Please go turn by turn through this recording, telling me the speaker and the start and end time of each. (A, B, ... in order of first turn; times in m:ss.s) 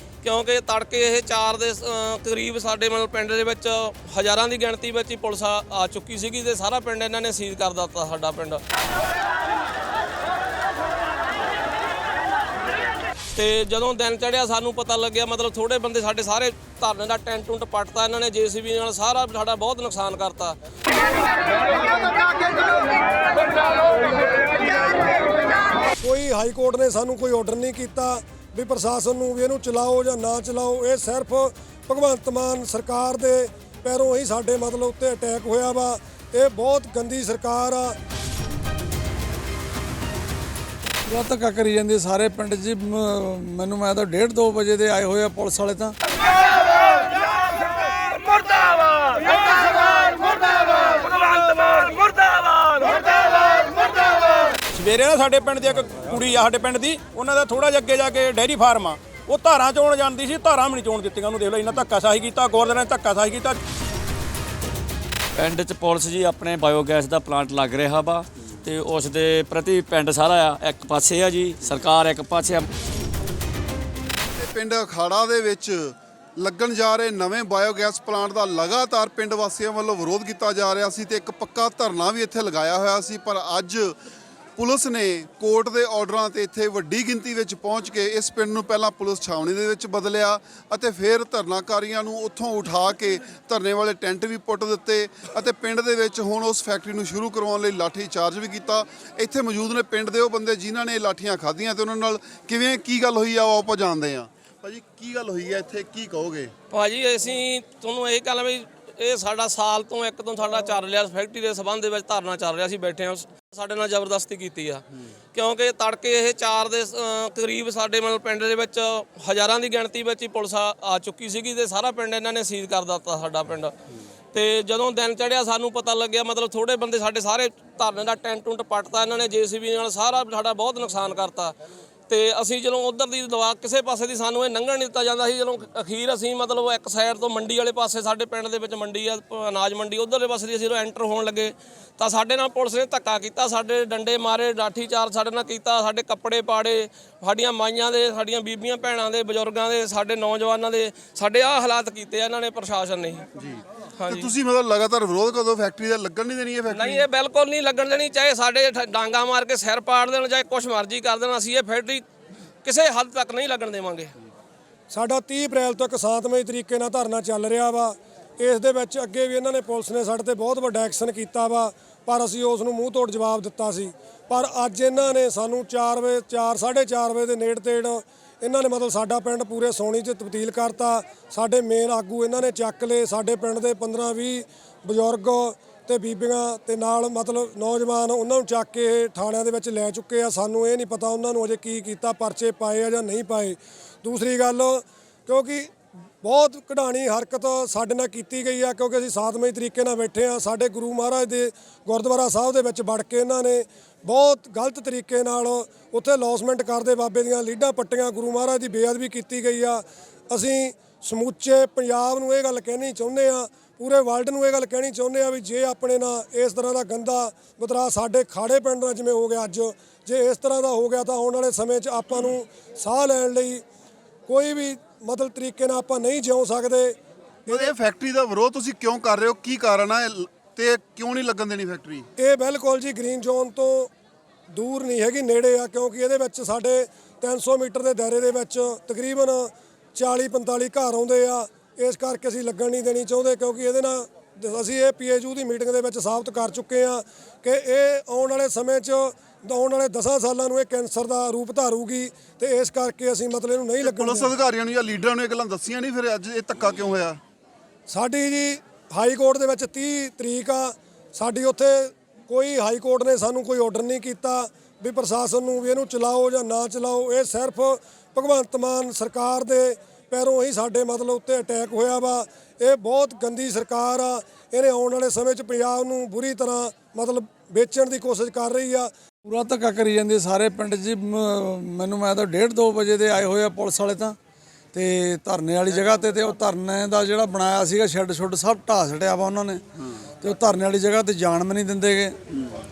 0:00.2-0:08.6 A
0:13.3-0:20.5 A
0:26.0-0:37.9 B
0:41.1-0:45.9 C
0:54.7-1:03.6 D
1:05.4-1:12.6 E
1:14.4-1:24.0 F
1:24.6-1:46.5 F
1:46.7-2:03.7 A
2:04.3-2:11.5 A
2:12.1-2:33.2 A
2:33.4-2:37.0 F
2:34.0-2:34.3 A
2:36.7-2:42.0 A
2:42.6-2:44.1 A
2:44.9-3:43.6 B
3:44.3-3:47.7 B
3:47.5-3:52.1 F
3:52.2-3:53.9 B
3:54.5-4:14.4 B
4:13.8-4:17.2 F
4:17.9-4:38.9 B
4:39.2-4:44.2 C
4:44.7-4:49.6 C
4:50.2-4:52.2 C